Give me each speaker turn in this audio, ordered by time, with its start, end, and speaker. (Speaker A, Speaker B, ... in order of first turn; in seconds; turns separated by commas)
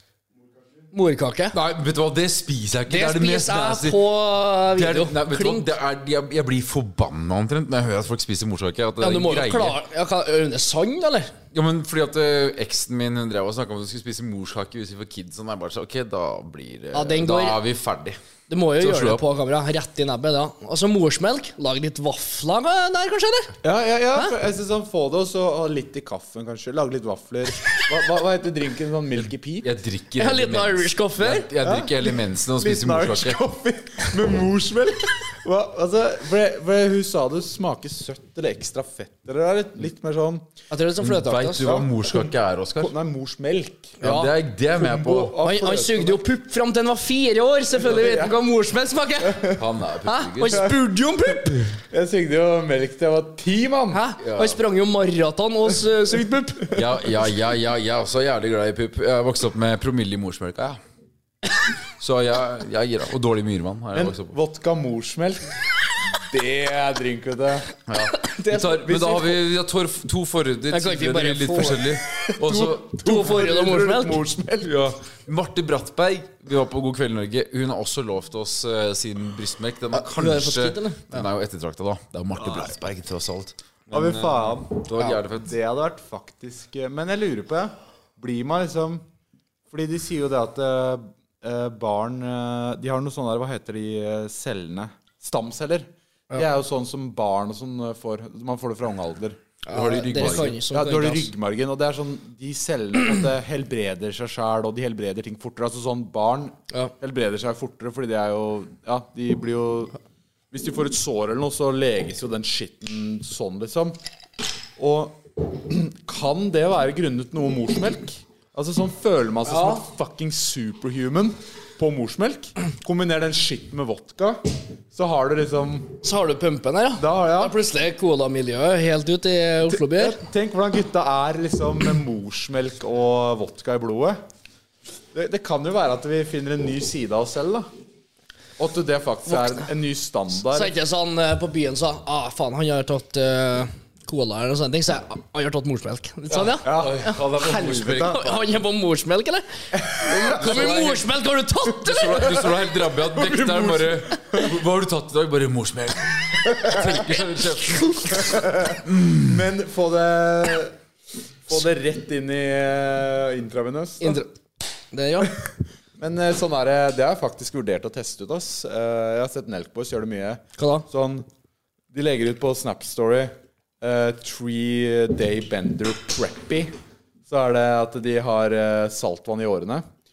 Speaker A: 0.9-1.6, Speaker B: 1.5-4.0, Speaker A: 2.9-5.7, Speaker B: 4.7-9.8, Speaker A: 9.0-11.3, Speaker B: 11.5-18.2, Speaker A: 16.9-17.6, Speaker A: 18.5-23.5, Speaker B: 18.8-19.2, Speaker C: 23.6-29.7, Speaker B: 29.2-33.4, Speaker A: 30.2-31.5, Speaker C: 31.6-40.5, Speaker A: 40.7-41.7, Speaker B: 41.0-42.9, Speaker C: 41.6-44.0, Speaker A: 44.0-44.3, Speaker B: 44.0-45.3, Speaker C: 44.8-46.2, Speaker A: 45.4-51.7, Speaker C: 47.7-48.4, Speaker C: 49.3-49.6, Speaker B: 49.5-50.7, Speaker C: 50.5-50.7, Speaker C: 51.9-54.0, Speaker A: 53.9-56.8, Speaker B: 54.2-54.6, Speaker B: 56.7-60.8, Speaker B: 62.0-64.3, Speaker C: 63.9-65.5, Speaker C: 66.1-67.7, Speaker B: 67.9-72.9, Speaker A: 68.1-68.8, Speaker C: 68.7-69.4, Speaker A: 70.7-71.8, Speaker C: 72.2-74.7, Speaker A: 73.0-74.2, Speaker B: 74.6-85.5, Speaker A: 79.9-81.2, Speaker C: 82.4-82.7, Speaker C: 83.9-89.0, Speaker C: 89.7-99.3, Speaker A: 99.7-101.3, Speaker B: 99.7-100.6, Speaker C: 100.2-110.0, Speaker C: 110.5-114.0, Speaker C: 114.8-126.0, Speaker A: 119.5-119.8, Speaker A: 126.0-130.2, Speaker C: 127.0-127.5, Speaker C: 129.7-134.2, Speaker C: 135.1-137.7, Speaker C: 138.6-140.7, Speaker A: 140.5-152.4, Speaker B: 146.3-148.5, Speaker C: 146.6-148.2, Speaker C: 149.7-150.8, Speaker B: 150.4-151.1, Speaker B: 151.8-159.3, Speaker C: 153.1-154.5, Speaker C: 156.5-156.9, Speaker C: 158.2-160.8, Speaker C: 161.4-164.2, Speaker A: 164.0-164.3, Speaker A: 164.9-165.3, Speaker C: 166.0-171.2, Speaker A: 170.6-170.8, Speaker C: 171.9-176.7, Speaker C: 177.3-179.8